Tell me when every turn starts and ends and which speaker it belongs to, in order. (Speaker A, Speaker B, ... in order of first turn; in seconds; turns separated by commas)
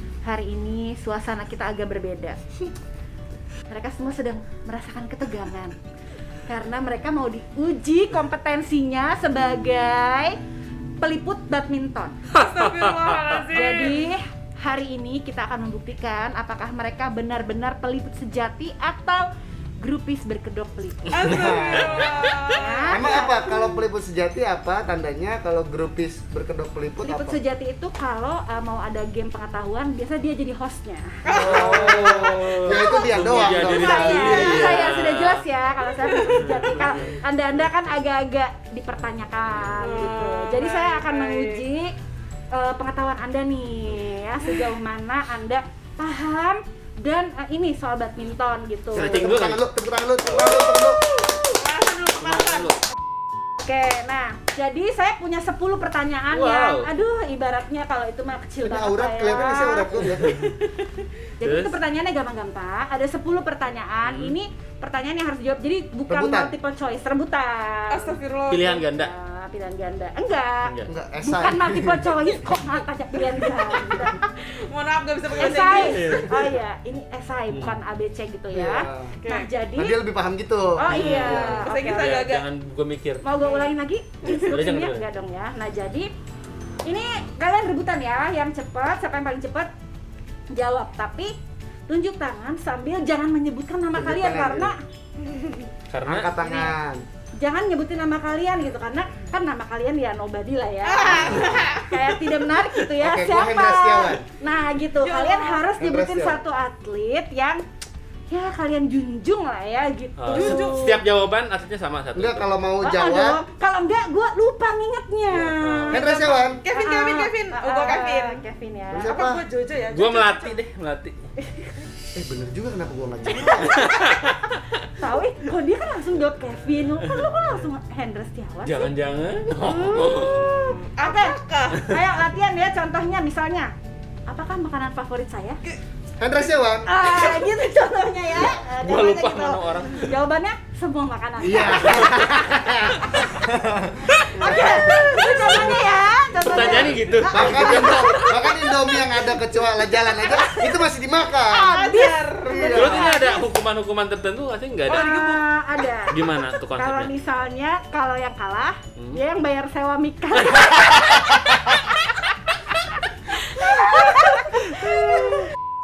Speaker A: 0.2-2.4, Speaker A: 3.7-5.8, Speaker A: 6.5-10.4, Speaker A: 11.0-12.2, Speaker B: 12.3-14.0, Speaker C: 12.3-13.4, Speaker A: 13.5-19.3, Speaker A: 19.8-21.4, Speaker B: 21.1-23.1, Speaker D: 21.1-22.1, Speaker A: 22.5-23.5, Speaker D: 22.9-27.4, Speaker A: 27.0-31.7, Speaker B: 31.2-32.4, Speaker D: 31.3-34.8, Speaker C: 31.7-35.4, Speaker A: 32.6-41.9, Speaker B: 33.8-34.6, Speaker B: 36.1-36.6, Speaker C: 36.4-37.1, Speaker B: 39.8-41.6, Speaker A: 42.5-49.3, Speaker C: 48.9-49.6, Speaker D: 49.0-51.0, Speaker B: 50.3-52.8, Speaker C: 52.2-52.8, Speaker A: 53.6-74.3, Speaker C: 56.3-56.9, Speaker D: 58.6-60.4, Speaker C: 61.4-61.7, Speaker C: 64.0-64.4, Speaker D: 66.1-66.5, Speaker B: 67.9-68.8, Speaker C: 68.5-69.1, Speaker D: 70.8-72.2, Speaker B: 74.7-76.2, Speaker A: 75.4-80.0, Speaker C: 75.8-76.3, Speaker C: 77.5-77.7, Speaker D: 78.5-79.2, Speaker B: 79.2-79.5, Speaker D: 79.8-81.6, Speaker A: 80.8-82.2, Speaker C: 80.9-83.2, Speaker B: 81.3-82.5, Speaker A: 83.2-86.1, Speaker B: 83.4-83.7, Speaker C: 84.2-85.0, Speaker A: 86.8-89.7, Speaker A: 90.5-91.3, Speaker A: 91.9-94.8, Speaker D: 93.9-94.7, Speaker C: 95.9-96.3, Speaker D: 96.0-97.0, Speaker A: 96.4-96.7, Speaker A: 97.4-107.6, Speaker B: 100.8-102.0, Speaker D: 101.2-101.5, Speaker D: 103.0-104.2, Speaker B: 105.0-105.7, Speaker D: 105.8-106.4, Speaker A: 108.3-111.0, Speaker C: 110.2-112.5, Speaker B: 110.3-111.0, Speaker D: 112.1-113.4, Speaker A: 112.8-119.2, Speaker C: 115.3-116.0, Speaker D: 115.9-116.6, Speaker B: 116.6-118.4, Speaker D: 118.9-119.4, Speaker B: 119.0-120.6, Speaker C: 119.9-121.2, Speaker D: 122.1-123.9, Speaker A: 123.3-124.2, Speaker C: 123.8-124.5, Speaker A: 124.9-128.9, Speaker C: 128.6-130.5, Speaker A: 129.5-133.7, Speaker B: 130.8-131.8, Speaker A: 134.3-135.6, Speaker D: 136.2-136.9, Speaker A: 136.8-142.5, Speaker C: 138.7-140.1, Speaker D: 141.4-145.6, Speaker A: 143.0-143.3, Speaker C: 144.2-144.4, Speaker A: 144.4-148.3, Speaker B: 144.5-145.3, Speaker C: 146.4-148.2, Speaker D: 146.4-151.8, Speaker B: 147.6-148.3, Speaker A: 150.2-150.6, Speaker A: 151.5-153.4, Speaker B: 151.5-153.1, Speaker D: 152.4-153.1, Speaker C: 152.7-155.0, Speaker B: 154.9-155.5, Speaker A: 154.9-156.2, Speaker C: 156.1-157.1, Speaker A: 156.7-165.4, Speaker C: 160.6-160.9, Speaker C: 164.7-165.2